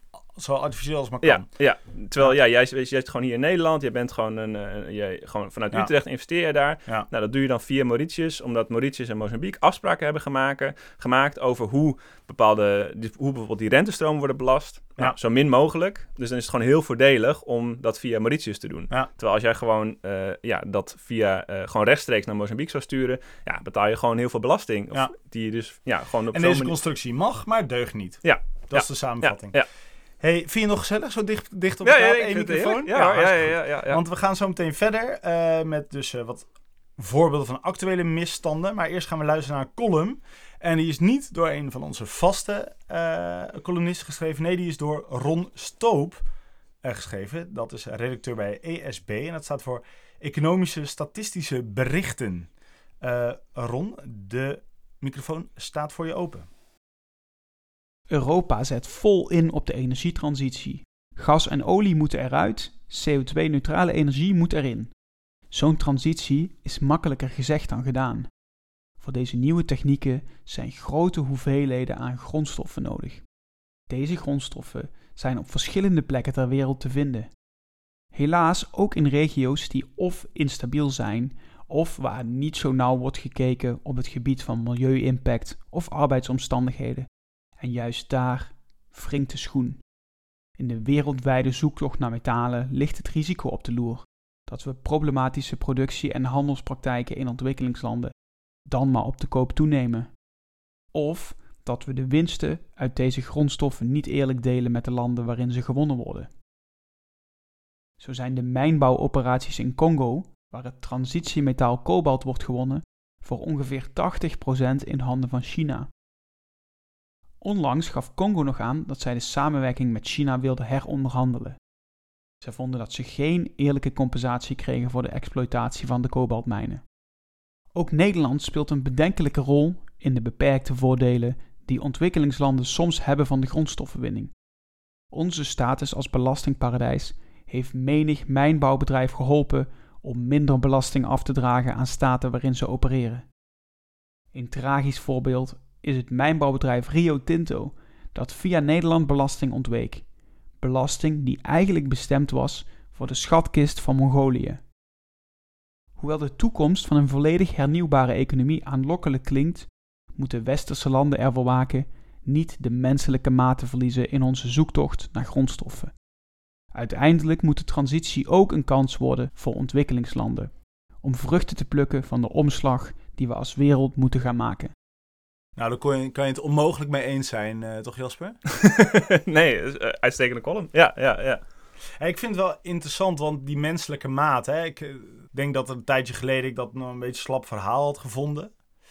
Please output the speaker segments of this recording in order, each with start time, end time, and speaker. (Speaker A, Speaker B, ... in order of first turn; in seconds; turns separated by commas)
Speaker A: 0.3-1.5, Speaker B: 1.2-26.8, Speaker A: 26.3-29.6, Speaker B: 28.2-29.7, Speaker A: 30.2-36.5, Speaker B: 31.8-34.0, Speaker A: 37.0-46.2, Speaker A: 46.8-52.5, Speaker A: 53.0-56.5, Speaker C: 58.1-77.4, Speaker C: 78.1-89.9, Speaker C: 90.5-100.3, Speaker C: 100.9-106.3, Speaker C: 108.0-115.9, Speaker C: 117.4-121.6, Speaker C: 122.4-127.0, Speaker C: 127.7-134.5, Speaker C: 135.0-143.4, Speaker C: 144.3-154.7, Speaker C: 156.0-166.1, Speaker C: 166.7-174.7, Speaker A: 175.6-178.4, Speaker B: 178.6-181.4, Speaker A: 182.0-188.5